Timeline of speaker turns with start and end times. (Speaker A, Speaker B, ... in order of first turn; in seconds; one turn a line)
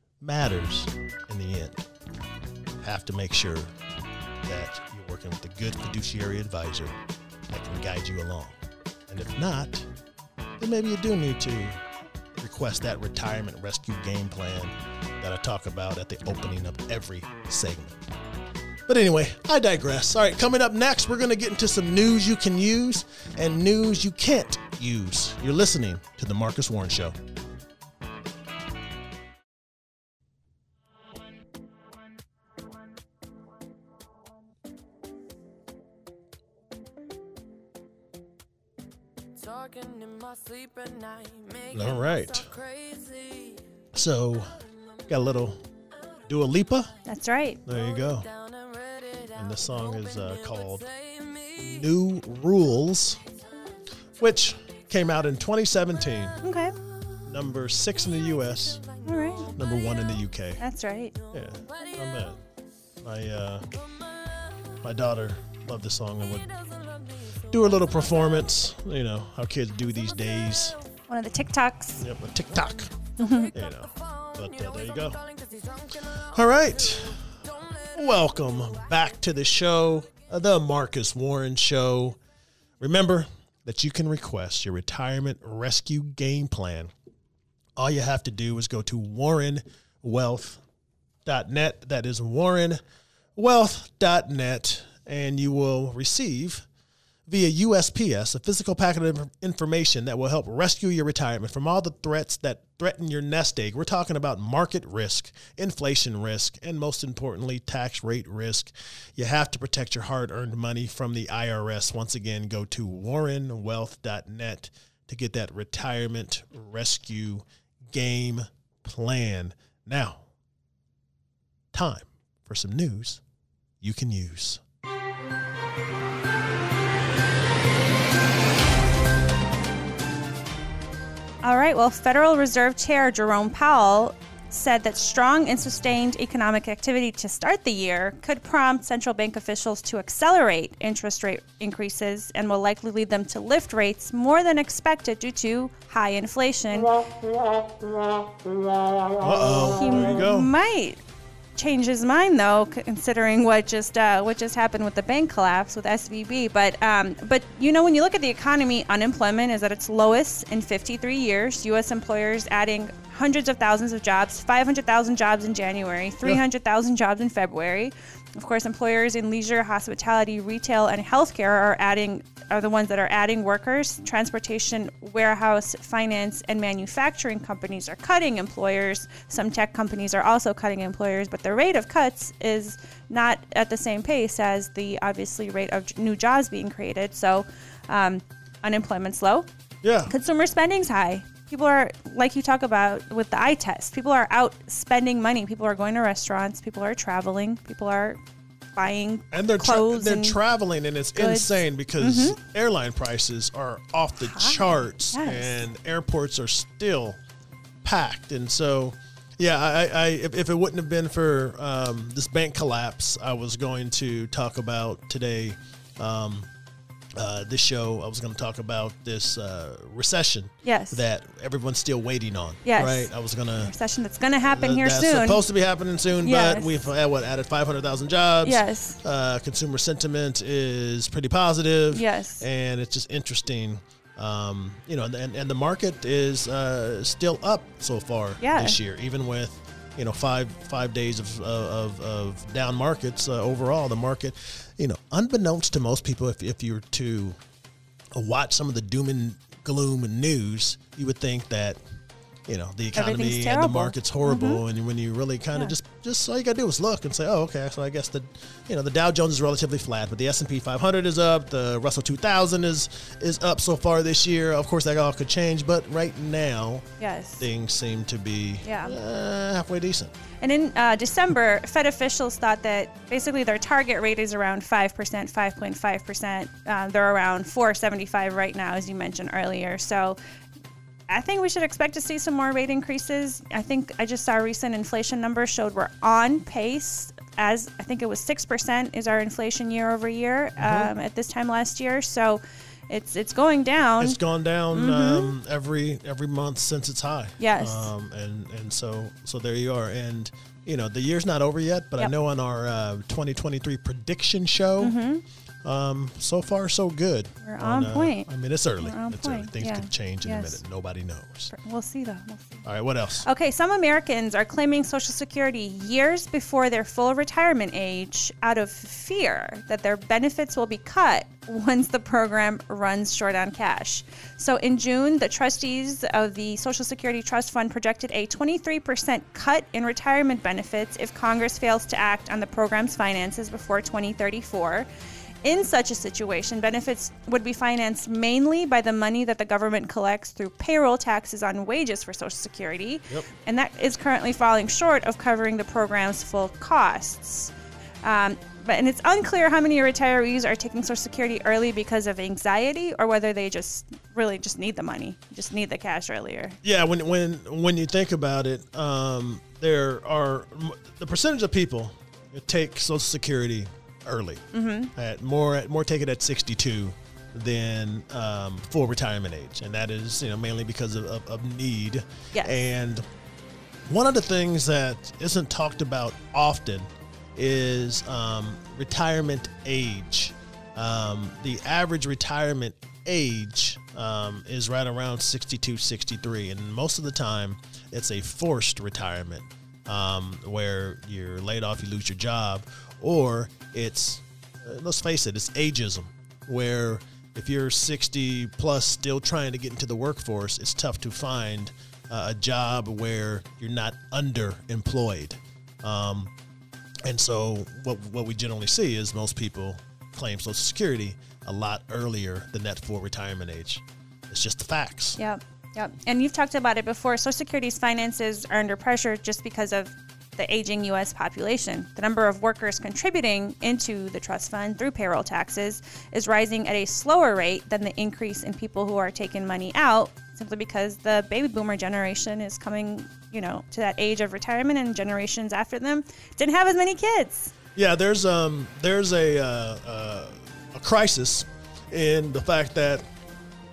Speaker A: 0.2-1.8
Speaker A: 2.8-3.7
Speaker A: 4.4-6.9
Speaker A: 7.5-8.6
Speaker A: 9.1-9.9
Speaker A: 10.6-11.8
Speaker A: 12.4-17.9
Speaker A: 18.9-27.1
Speaker B: 39.4-43.7
Speaker A: 41.7-42.5
Speaker A: 43.9-44.6
Speaker A: 45.1-45.6
Speaker A: 46.3-46.9
Speaker C: 47.0-47.6
Speaker A: 47.6-48.3
Speaker B: 47.7-51.9
Speaker A: 49.4-50.8
Speaker A: 51.6-53.2
Speaker A: 54.2-56.4
Speaker C: 56.4-56.8
Speaker A: 57.2-58.8
Speaker B: 58.3-60.0
Speaker C: 59.0-59.5
Speaker A: 59.5-60.6
Speaker C: 60.6-61.1
Speaker A: 61.3-62.4
Speaker B: 61.3-62.3
Speaker A: 63.0-63.7
Speaker B: 64.2-64.5
Speaker A: 64.8-66.5
Speaker B: 66.4-68.6
Speaker A: 67.5-70.8
Speaker B: 69.8-70.9
Speaker C: 71.1-72.0
Speaker A: 72.0-72.9
Speaker C: 73.2-73.5
Speaker B: 73.2-79.3
Speaker A: 73.5-75.2
Speaker A: 76.3-82.2
Speaker A: 82.8-86.9
Speaker A: 87.8-90.6
Speaker A: 91.2-92.8
Speaker A: 93.3-96.7
Speaker A: 97.3-120.3
Speaker A: 121.7-123.2
Speaker A: 123.8-124.6
Speaker C: 131.4-146.9
Speaker A: 149.2-150.5
Speaker C: 149.7-151.0
Speaker C: 151.6-189.5
Speaker A: 189.8-190.1
Speaker C: 190.1-198.2
Speaker C: 198.7-200.4
Speaker A: 199.3-207.2
Speaker C: 201.2-202.4
Speaker C: 204.2-205.6
Speaker A: 207.8-216.5
Speaker A: 217.2-223.7
Speaker C: 220.6-221.0
Speaker C: 222.6-223.1
Speaker C: 223.6-225.4
Speaker A: 224.4-247.4
Speaker C: 226.2-226.8
Speaker C: 228.4-229.0
Speaker C: 231.9-232.4
Speaker C: 238.4-238.8
Speaker A: 248.1-251.8
Speaker A: 252.5-266.9
Speaker C: 252.9-254.6
Speaker C: 267.0-267.4
Speaker A: 267.4-270.1
Speaker C: 268.6-269.0
Speaker C: 270.4-280.2
Speaker C: 281.1-294.2
Speaker A: 290.6-290.9
Speaker A: 294.0-304.9
Speaker C: 294.7-295.3
Speaker C: 297.4-297.9
Speaker C: 304.8-305.2
Speaker A: 305.6-311.5
Speaker C: 307.4-308.3
Speaker C: 308.8-310.6
Speaker C: 311.5-312.6
Speaker A: 312.6-313.2
Speaker C: 313.2-334.9
Speaker C: 335.4-347.5
Speaker C: 348.0-356.6
Speaker A: 356.6-373.1
Speaker C: 364.5-364.9
Speaker C: 372.3-372.6
Speaker A: 373.9-406.3
Speaker A: 407.0-415.2
Speaker C: 415.2-437.5
Speaker A: 437.8-443.1